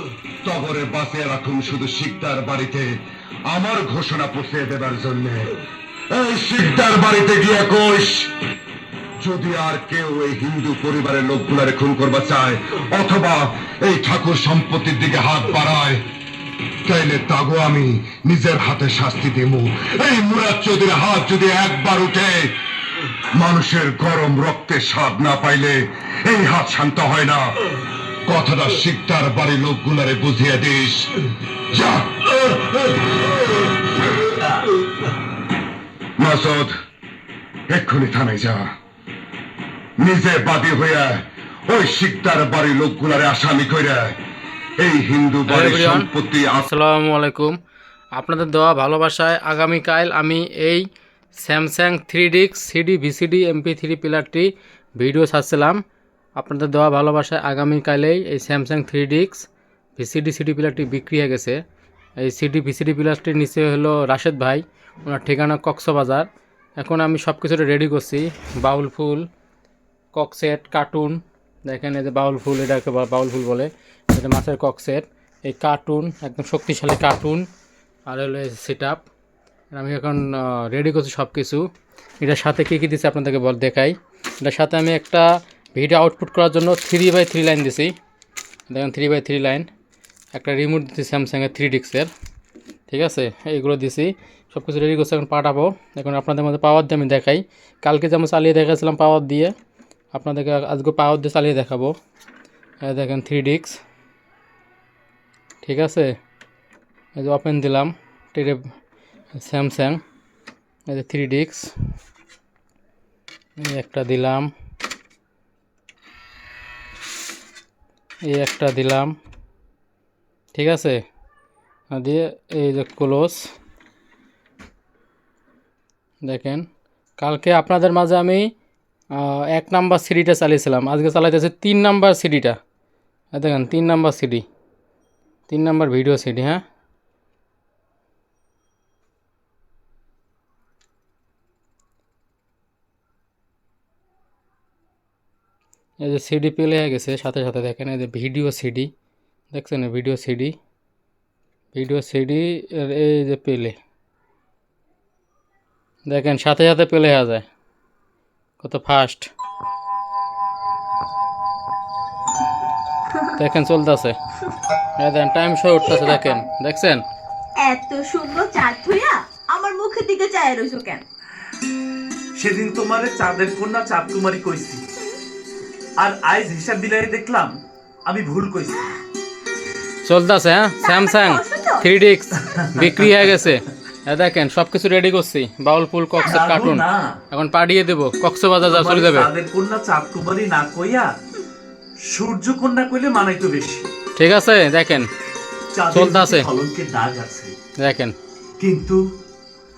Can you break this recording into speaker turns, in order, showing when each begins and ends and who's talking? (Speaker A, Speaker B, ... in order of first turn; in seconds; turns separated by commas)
Speaker A: 0.4-5.5, Speaker A: 6.1-8.3, Speaker A: 9.2-16.0, Speaker A: 16.8-22.5, Speaker A: 23.3-27.5, Speaker A: 28.2-31.1, Speaker A: 31.7-33.7, Speaker A: 36.2-36.7, Speaker A: 37.7-38.6, Speaker A: 40.0-44.1, Speaker A: 44.8-46.7, Speaker B: 45.5-46.1, Speaker B: 46.6-47.6, Speaker B: 48.1-55.8, Speaker B: 56.4-61.6, Speaker B: 62.2-69.3, Speaker B: 70.1-77.5, Speaker B: 78.1-79.0, Speaker B: 79.7-81.6, Speaker B: 82.2-87.9, Speaker B: 88.7-89.7, Speaker B: 90.3-92.1, Speaker B: 92.9-99.5, Speaker B: 100.1-101.9, Speaker B: 102.8-103.8, Speaker B: 105.6-106.1, Speaker B: 107.2-108.6, Speaker B: 109.4-110.0, Speaker B: 110.9-111.7, Speaker B: 113.6-114.5, Speaker B: 118.2-119.2, Speaker B: 120.5-121.0, Speaker B: 121.9-123.4, Speaker B: 126.2-126.7, Speaker B: 127.2-128.5, Speaker B: 129.1-132.6, Speaker B: 133.3-134.4, Speaker B: 135.5-136.6, Speaker B: 146.0-148.9, Speaker B: 149.5-150.6, Speaker B: 151.7-153.8, Speaker B: 156.1-157.4, Speaker B: 158.6-159.3, Speaker B: 163.4-164.2, Speaker B: 165.0-167.0, Speaker C: 167.6-171.0, Speaker D: 172.3-174.8, Speaker D: 176.0-178.9, Speaker B: 180.0-189.3, Speaker C: 180.8-181.9, Speaker D: 182.4-183.0, Speaker D: 186.2-187.1, Speaker D: 188.6-191.1, Speaker D: 192.1-193.9, Speaker B: 194.2-195.1, Speaker D: 195.7-197.5, Speaker B: 195.9-196.5, Speaker B: 197.8-198.2, Speaker D: 198.6-199.0